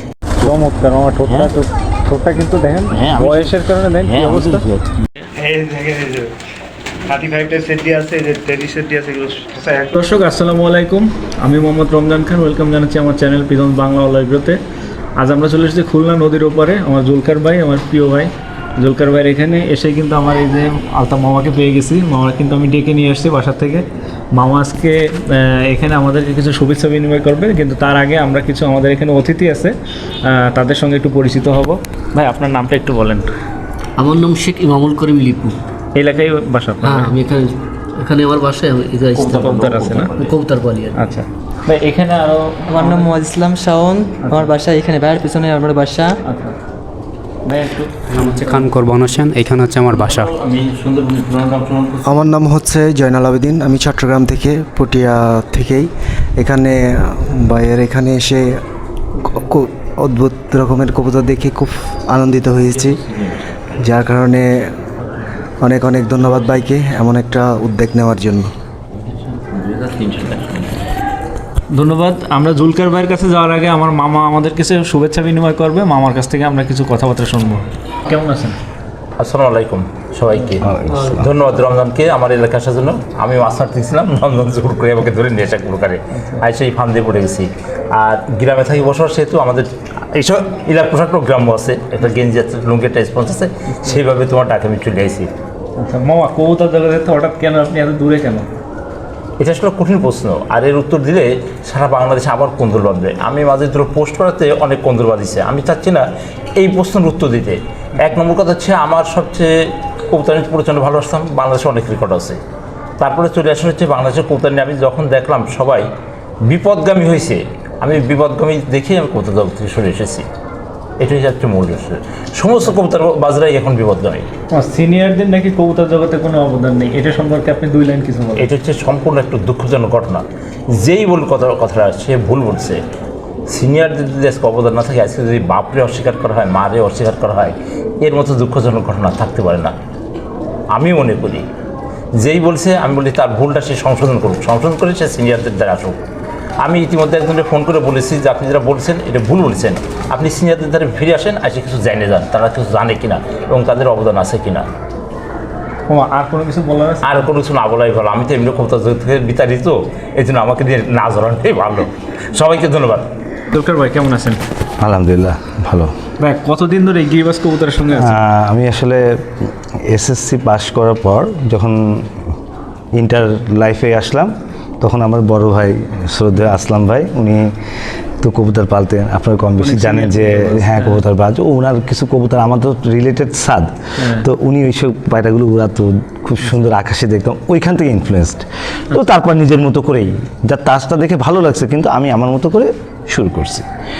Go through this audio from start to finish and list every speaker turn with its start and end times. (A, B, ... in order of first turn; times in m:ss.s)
0:00.4-0:04.6 A
0:02.9-0:03.5 B
0:04.1-0:04.9 B
0:05.4-0:06.3 C
0:07.1-0:10.0 C
0:09.9-0:14.6 A
0:15.2-0:33.3 A
0:34.0-0:35.6 D
0:36.0-0:37.1 A
0:36.8-0:41.0 D
0:39.2-0:40.4 B
0:39.3-0:40.1 A
0:40.9-0:43.1 A
0:42.7-0:46.2 E
0:44.2-0:44.5 A
0:46.2-0:46.5 A
0:47.5-0:47.7 A
0:48.1-0:50.3 F
0:49.9-0:52.2 B
0:52.0-0:58.6 G
0:59.2-1:03.0 G
1:03.8-1:04.7 G
1:05.6-1:08.5 G
1:09.2-1:10.7 B
1:11.7-1:18.6 A
1:19.2-1:35.3 B
1:20.6-1:21.3 C
1:35.8-1:38.5 A
1:39.4-1:52.4 B
1:53.0-1:55.9 B
1:56.4-2:00.3 B
2:01.0-2:04.3 B
2:04.5-2:08.5 A
2:08.4-2:12.8 B
2:13.5-2:19.7 B
2:20.7-2:21.4 B
2:22.1-2:26.0 B
2:26.6-2:34.7 B
2:35.9-2:37.3 A
2:37.0-2:43.1 B
2:43.5-2:44.4 A
2:44.8-2:45.9 C
2:46.2-2:48.2 A
2:47.9-2:52.2 C
2:52.9-2:57.6 C
2:58.2-3:13.7 C
2:59.6-3:01.0 A
3:04.0-3:04.3 A